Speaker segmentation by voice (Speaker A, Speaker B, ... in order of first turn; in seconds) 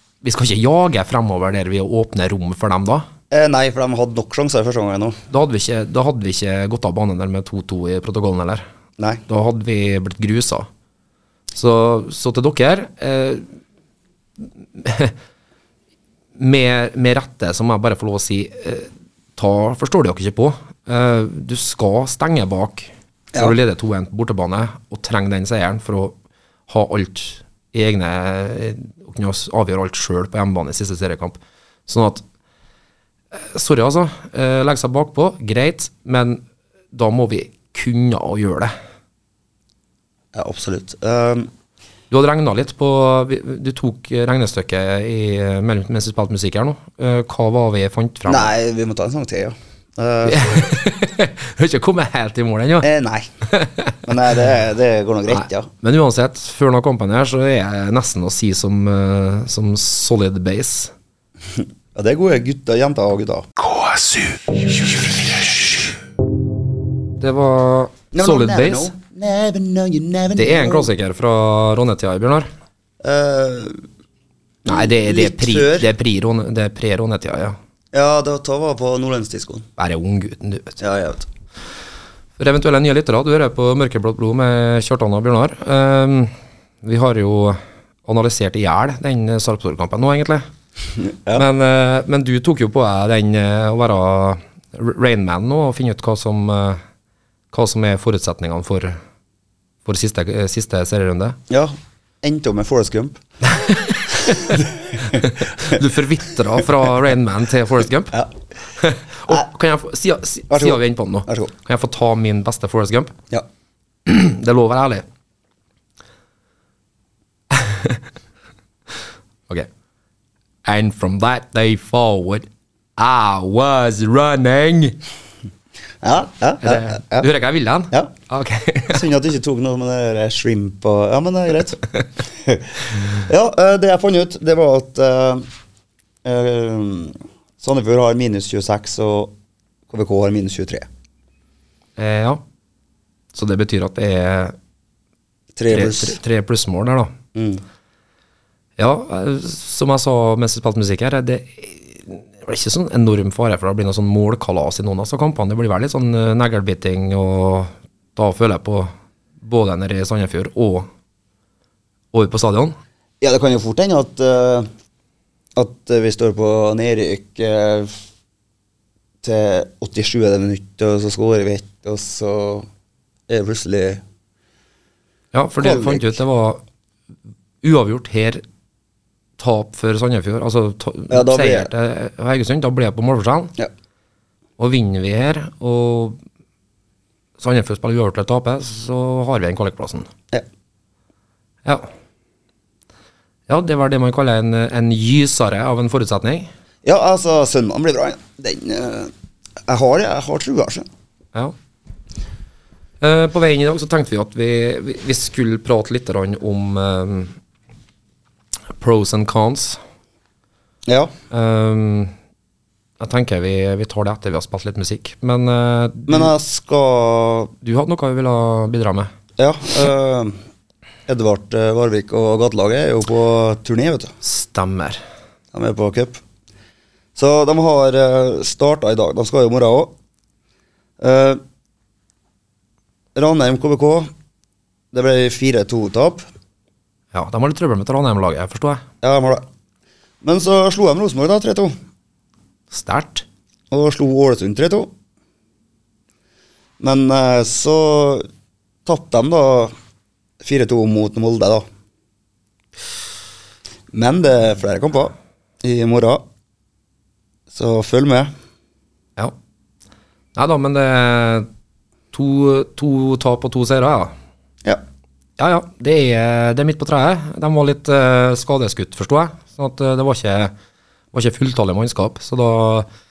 Speaker A: 0.2-3.1, 5.3-8.6, 9.3-10.7, 11.5-13.5, 14.6-15.2, 16.4-26.1, 26.7-32.2, 33.3-36.4, 36.9-38.7, 42.1-48.5, 50.2-52.9, 53.5-54.0, 55.3-60.9, 67.2-68.9, 70.3-72.5, 74.6-77.6, 79.8-80.8, 82.4-90.4, 91.3-96.8, 97.5-99.0, 99.8-101.4, 103.7-104.1, 105.0-108.2, 108.8-113.2, 114.0-115.0, 117.5-118.0, 120.6-125.0, 126.6-129.0, 142.0-142.4, 143.3-144.5, 145.7-147.1, 148.8-160.9, 162.1-162.7, 175.3-176.6, 177.6-178.4, 179.4-183.5, 184.6-186.2, 187.4-190.1, 193.5-196.5, 203.0-207.3, 208.8-209.8, 211.3-212.1, 213.0-216.3, 217.6-219.1, 224.2-225.0, 237.1-238.8, 242.7-243.2, 260.3-261.5, 262.1-264.1, 265.4-270.5, 271.1-272.9
Speaker B: 3.3-5.2, 9.0-9.2, 40.3-41.5, 48.3-50.7, 52.8-53.3, 54.0-55.7, 61.9-63.5, 68.1-70.9, 73.0-73.8, 74.6-75.9, 77.9-79.7, 80.8-81.3, 91.0-91.4, 101.5-103.2, 104.1-105.8, 110.5-111.5, 126.0-127.3, 128.9-135.5, 136.2-139.3, 139.9-140.9, 145.6-146.2, 147.3-147.6, 163.2-164.7, 165.6-167.9, 169.2-172.7, 173.3-174.0, 175.6-176.1, 181.1-181.7, 196.8-199.1, 199.7-200.8, 210.9-211.1, 216.1-217.5, 219.4-220.4, 221.1-224.1, 225.5-226.2, 227.2-229.9, 231.0-231.4, 233.1-234.1, 234.9-236.2, 239.0-239.4, 240.2-241.7, 243.7-244.9, 246.8-248.3, 248.8-249.7, 250.4-251.6, 253.9-256.2, 257.5-258.3
Speaker C: 63.6-65.7